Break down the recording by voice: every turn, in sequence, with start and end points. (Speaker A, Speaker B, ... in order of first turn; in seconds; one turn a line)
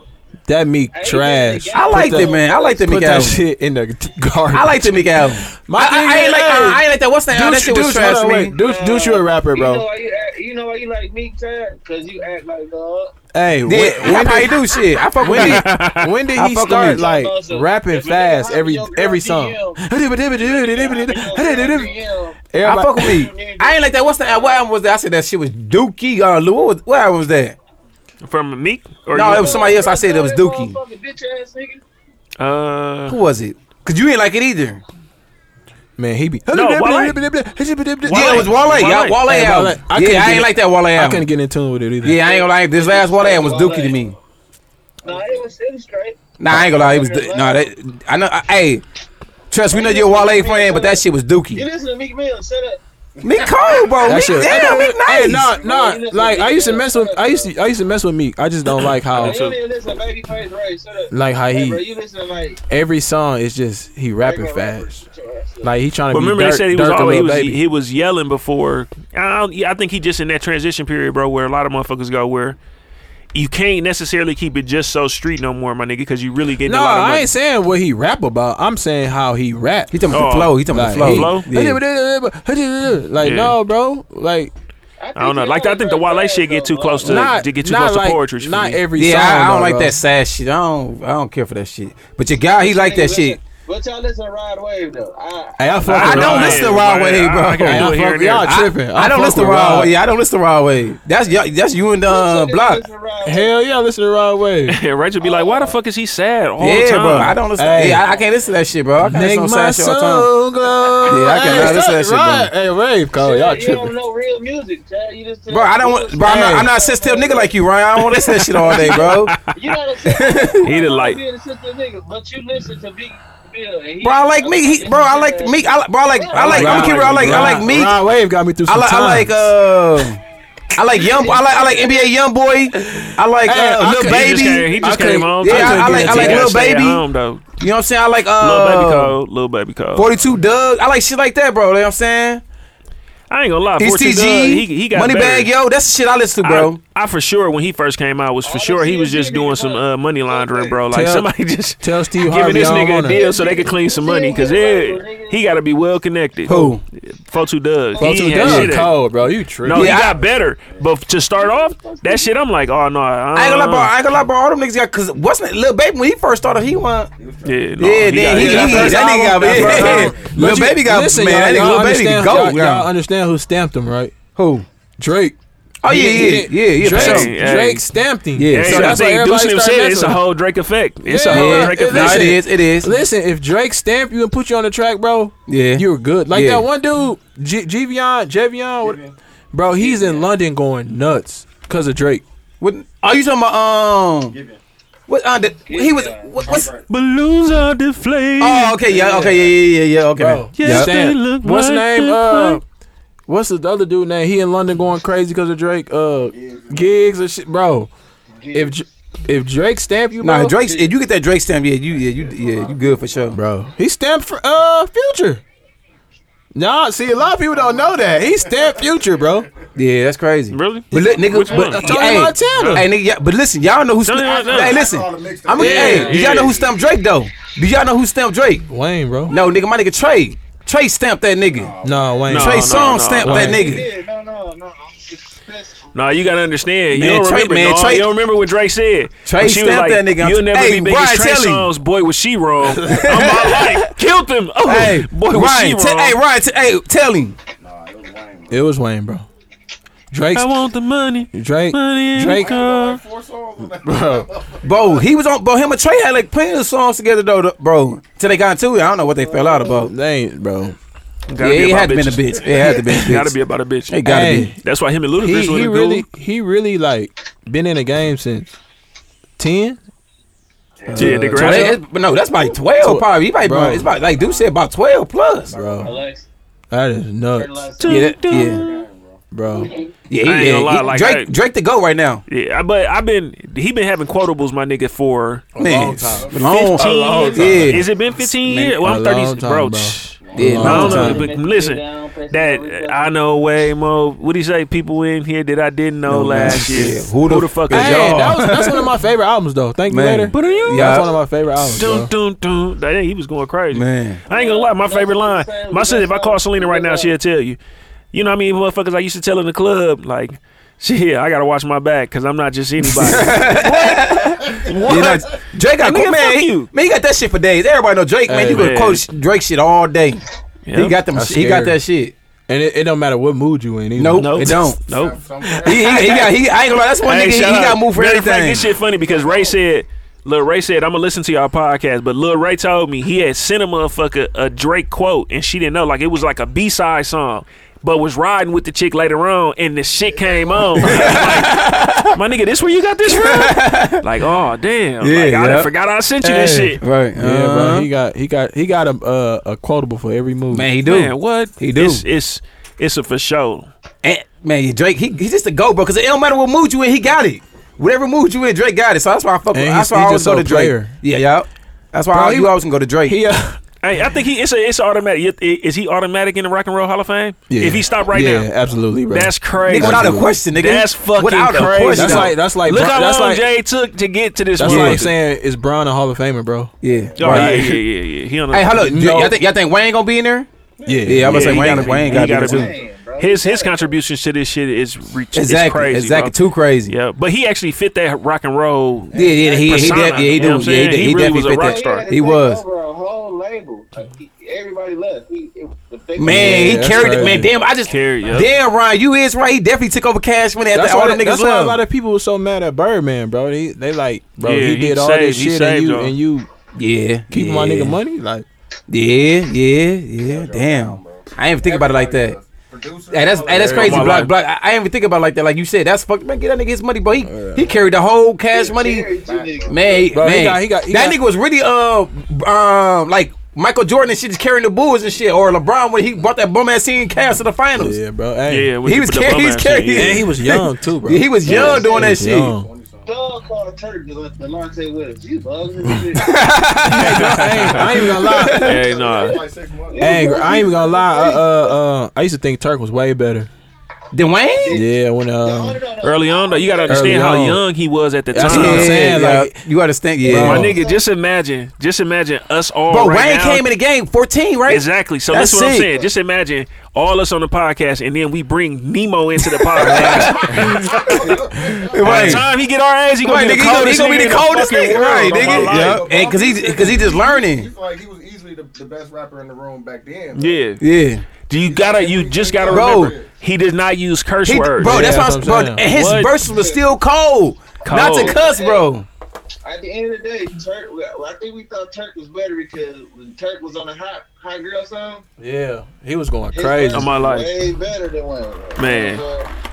Speaker A: 0.5-9.8
Speaker B: 0.9-3.2
Speaker C: 1.7-3.4
Speaker C: 4.5-8.5
Speaker B: 8.5-13.1
Speaker A: 13.3-14.6
Speaker C: 13.7-15.7
Speaker A: 15.2-21.9
Speaker D: 15.3-16.1
Speaker C: 16.3-17.0
Speaker B: 16.6-19.8
Speaker B: 20.4-24.6
Speaker A: 22.5-23.1
Speaker C: 22.6-27.6
Speaker D: 28.2-29.8
Speaker C: 29.1-30.7
Speaker B: 29.2-31.8
Speaker D: 32.4-33.2
Speaker C: 33.1-34.8
Speaker A: 36.0-38.5
Speaker D: 36.5-37.2
Speaker D: 38.0-39.2
Speaker C: 38.1-41.2
Speaker A: 39.2-42.2
Speaker C: 42.0-44.1
Speaker B: 42.2-44.0
Speaker E: 45.0-45.4
Speaker B: 45.0-47.7
Speaker C: 46.4-48.8
Speaker C: 49.5-51.6
Speaker B: 49.7-51.0
Speaker B: 51.5-52.8
Speaker E: 53.2-53.9
Speaker C: 53.2-55.5
Speaker A: 54.0-59.4
Speaker B: 54.1-57.5
Speaker D: 59.1-59.5
Speaker B: 59.1-62.6
Speaker A: 61.1-61.8
Speaker A: 62.7-65.0
Speaker B: 64.2-65.8
Speaker A: 65.6-67.6
Speaker D: 66.1-72.6
Speaker D: 73.3-77.3
Speaker A: 76.6-80.1
Speaker C: 79.9-81.8
Speaker D: 80.1-81.5
Speaker A: 80.7-84.5
Speaker D: 83.2-83.5
Speaker B: 85.0-87.3
Speaker D: 85.2-88.8
Speaker A: 87.0-90.0
Speaker C: 88.9-93.4
Speaker B: 92.5-96.2
Speaker A: 95.6-96.7
Speaker D: 95.9-98.6
Speaker C: 95.9-102.8
Speaker A: 97.6-99.9
Speaker B: 102.1-103.5
Speaker A: 103.2-104.8
Speaker D: 104.7-107.4
Speaker B: 105.2-105.7
Speaker C: 106.6-110.3
Speaker A: 107.5-108.0
Speaker A: 109.0-113.9
Speaker C: 111.1-112.5
Speaker B: 111.3-111.8
Speaker B: 113.2-117.5
Speaker C: 115.5-119.3
Speaker A: 116.2-116.7
Speaker D: 118.1-119.4
Speaker B: 118.9-125.6
Speaker C: 120.1-120.7
Speaker D: 120.6-121.2
Speaker C: 124.0-128.0
Speaker B: 126.1-127.1
Speaker A: 126.4-129.5
Speaker D: 126.5-127.5
Speaker C: 128.7-130.2
Speaker C: 130.7-137.0
Speaker B: 130.9-132.1
Speaker A: 133.4-136.6
Speaker D: 133.9-137.4
Speaker C: 137.6-139.1
Speaker D: 138.4-140.1
Speaker C: 139.9-142.4
Speaker D: 143.3-145.5
Speaker C: 143.8-146.8
Speaker D: 146.4-156.7
Speaker B: 148.4-150.8
Speaker A: 150.9-151.3
Speaker A: 151.8-153.2
Speaker B: 152.5-155.6
Speaker C: 156.5-156.8
Speaker A: 156.5-156.7
Speaker D: 157.3-158.9
Speaker B: 157.9-158.5
Speaker A: 158.0-159.9
Speaker D: 159.6-163.9
Speaker C: 159.7-160.2
Speaker E: 160.2-160.9
Speaker B: 161.3-162.4
Speaker C: 163.3-167.1
Speaker E: 167.2-170.4
Speaker D: 167.4-170.2
Speaker C: 167.8-172.9
Speaker A: 168.2-174.1
Speaker C: 174.3-174.7
Speaker A: 175.0-180.2
Speaker C: 175.8-177.3
Speaker D: 176.8-177.8
Speaker C: 178.3-179.0
Speaker D: 178.5-182.4
Speaker A: 181.1-189.0
Speaker C: 181.3-182.9
Speaker C: 185.5-186.6
Speaker E: 188.8-189.1
Speaker A: 189.5-192.2
Speaker E: 189.8-190.2
Speaker C: 192.6-194.3
Speaker E: 194.3-194.6
Speaker C: 195.1-196.7
Speaker B: 195.7-196.4
Speaker E: 196.4-196.8
Speaker D: 196.8-198.8
Speaker C: 198.4-200.9
Speaker A: 198.9-199.5
Speaker A: 200.2-202.6
Speaker D: 200.6-202.6
Speaker A: 203.3-207.9
Speaker E: 206.2-207.0
Speaker B: 208.4-208.8
Speaker A: 208.5-210.6
Speaker C: 210.2-213.4
Speaker B: 210.3-211.0
Speaker E: 211.9-213.3
Speaker A: 213.3-215.4
Speaker A: 216.5-219.5
Speaker E: 217.5-219.7
Speaker C: 219.7-228.7
Speaker D: 220.5-222.8
Speaker A: 220.9-222.9
Speaker E: 221.3-221.8
Speaker D: 224.0-224.8
Speaker E: 224.2-226.8
Speaker D: 225.6-226.6
Speaker A: 225.6-226.1
Speaker A: 228.7-229.3
Speaker C: 229.3-231.7
Speaker E: 231.5-232.3
Speaker A: 231.8-232.7
Speaker C: 232.3-233.8
Speaker D: 232.3-233.5
Speaker A: 233.2-233.6
Speaker B: 233.3-235.9
Speaker D: 235.9-246.2
Speaker C: 236.9-238.1
Speaker C: 239.2-241.7
Speaker A: 242.6-243.3
Speaker C: 242.8-243.8
Speaker C: 244.6-247.4
Speaker E: 247.6-248.6
Speaker A: 248.5-249.3
Speaker A: 250.1-250.5
Speaker D: 250.3-253.0
Speaker A: 251.3-252.5
Speaker E: 252.2-255.1
Speaker A: 253.8-254.3
Speaker C: 254.6-259.9
Speaker E: 258.8-259.7
Speaker A: 259.6-260.8
Speaker D: 261.3-264.0
Speaker C: 261.4-263.3
Speaker C: 263.9-264.5
Speaker A: 264.0-264.5
Speaker D: 264.5-266.1
Speaker A: 265.2-268.5
Speaker A: 269.4-269.8
Speaker A: 270.9-271.8
Speaker D: 270.9-271.8
Speaker C: 270.9-275.6
Speaker A: 272.8-273.9
Speaker E: 274.0-274.5
Speaker E: 275.5-276.0
Speaker A: 275.5-275.9
Speaker B: 275.8-276.3
Speaker A: 276.7-277.6
Speaker B: 277.3-278.1
Speaker D: 277.8-278.8
Speaker C: 277.8-278.6
Speaker E: 278.3-279.2
Speaker A: 279.3-279.7
Speaker B: 279.5-279.9
Speaker C: 280.1-282.2
Speaker D: 280.2-281.3
Speaker D: 282.3-285.5
Speaker A: 285.6-287.8
Speaker C: 285.6-288.8
Speaker E: 285.6-287.3
Speaker D: 286.3-298.3
Speaker A: 288.8-291.2
Speaker E: 290.2-290.8
Speaker C: 290.3-291.2
Speaker B: 290.6-293.7
Speaker C: 296.1-298.9
Speaker A: 296.4-296.9
Speaker A: 297.7-302.1
Speaker C: 299.9-301.1
Speaker D: 300.3-301.0
Speaker D: 301.6-307.6
Speaker C: 303.7-304.2
Speaker B: 304.3-307.1
Speaker D: 308.1-316.7
Speaker C: 312.9-320.2
Speaker A: 312.9-313.3
Speaker E: 314.4-315.3
Speaker A: 318.2-318.7
Speaker D: 318.5-319.0
Speaker D: 320.7-321.0
Speaker C: 320.7-322.1
Speaker A: 321.1-321.8
Speaker A: 322.5-324.6
Speaker C: 323.9-324.8
Speaker D: 324.1-326.3
Speaker E: 324.8-326.3
Speaker C: 325.6-328.7
Speaker D: 327.0-346.8
Speaker E: 328.8-329.5
Speaker E: 340.1-341.5
Speaker C: 340.8-342.2
Speaker C: 343.0-344.0
Speaker C: 345.0-345.7
Speaker C: 346.2-347.9
Speaker A: 347.1-350.7
Speaker C: 350.5-352.0
Speaker D: 350.8-353.7
Speaker C: 354.0-363.2
Speaker A: 359.5-360.9
Speaker A: 362.1-363.6
Speaker D: 363.8-368.5
Speaker A: 367.5-370.3
Speaker D: 369.1-375.1
Speaker C: 369.6-372.4
Speaker A: 371.9-373.5
Speaker A: 374.6-377.8
Speaker C: 374.6-375.0
Speaker C: 376.8-377.7
Speaker E: 376.8-377.5
Speaker D: 377.2-379.1
Speaker C: 378.5-380.5
Speaker A: 378.7-379.3
Speaker E: 380.8-381.2
Speaker A: 380.8-382.3
Speaker C: 381.0-382.7
Speaker D: 381.2-386.4
Speaker B: 382.1-384.0
Speaker C: 385.3-386.9
Speaker D: 386.9-392.1
Speaker E: 389.1-391.0
Speaker C: 389.1-392.6
Speaker B: 391.6-397.5
Speaker C: 396.2-401.8
Speaker A: 396.2-397.5
Speaker D: 397.9-398.5
Speaker A: 400.7-406.5
Speaker D: 404.4-406.1
Speaker C: 406.7-407.9
Speaker A: 407.3-408.4
Speaker C: 408.9-412.4
Speaker E: 410.2-414.1
Speaker C: 413.1-419.1
Speaker A: 413.5-414.2
Speaker D: 413.7-414.3
Speaker A: 417.2-417.8
Speaker B: 418.5-420.1
Speaker E: 419.1-420.1
Speaker C: 419.7-428.0
Speaker A: 420.1-421.2
Speaker A: 427.8-428.7
Speaker D: 428.5-430.3
Speaker C: 428.8-432.5
Speaker A: 429.9-432.7
Speaker B: 431.4-432.1
Speaker D: 431.4-431.8
Speaker E: 431.6-433.1
Speaker B: 433.1-436.3
Speaker C: 436.1-438.8
Speaker A: 436.8-438.7
Speaker D: 436.9-439.4
Speaker E: 438.4-441.4
Speaker B: 438.6-441.7
Speaker A: 440.0-443.5
Speaker C: 444.1-444.8
Speaker B: 444.4-444.9
Speaker A: 444.7-445.8
Speaker B: 445.4-447.3
Speaker D: 446.0-449.1
Speaker A: 446.9-447.6
Speaker A: 448.3-449.6
Speaker C: 448.4-450.7
Speaker A: 450.2-450.8
Speaker D: 450.3-453.6
Speaker B: 450.5-451.0
Speaker C: 452.9-456.0
Speaker D: 454.7-466.1
Speaker C: 459.6-461.3
Speaker A: 459.9-460.8
Speaker E: 460.7-462.4
Speaker C: 461.9-462.4
Speaker C: 463.2-467.7
Speaker E: 464.2-470.6
Speaker D: 470.3-470.8
Speaker C: 470.8-471.2
Speaker D: 471.5-475.1
Speaker E: 471.6-473.3
Speaker C: 472.6-473.1
Speaker C: 474.5-479.1
Speaker A: 474.8-475.8
Speaker D: 475.8-476.4
Speaker B: 476.4-476.9
Speaker D: 477.8-478.4
Speaker B: 477.9-478.9
Speaker B: 479.6-485.2
Speaker A: 485.4-487.1
Speaker B: 486.5-489.5
Speaker D: 486.9-487.5
Speaker D: 488.8-489.2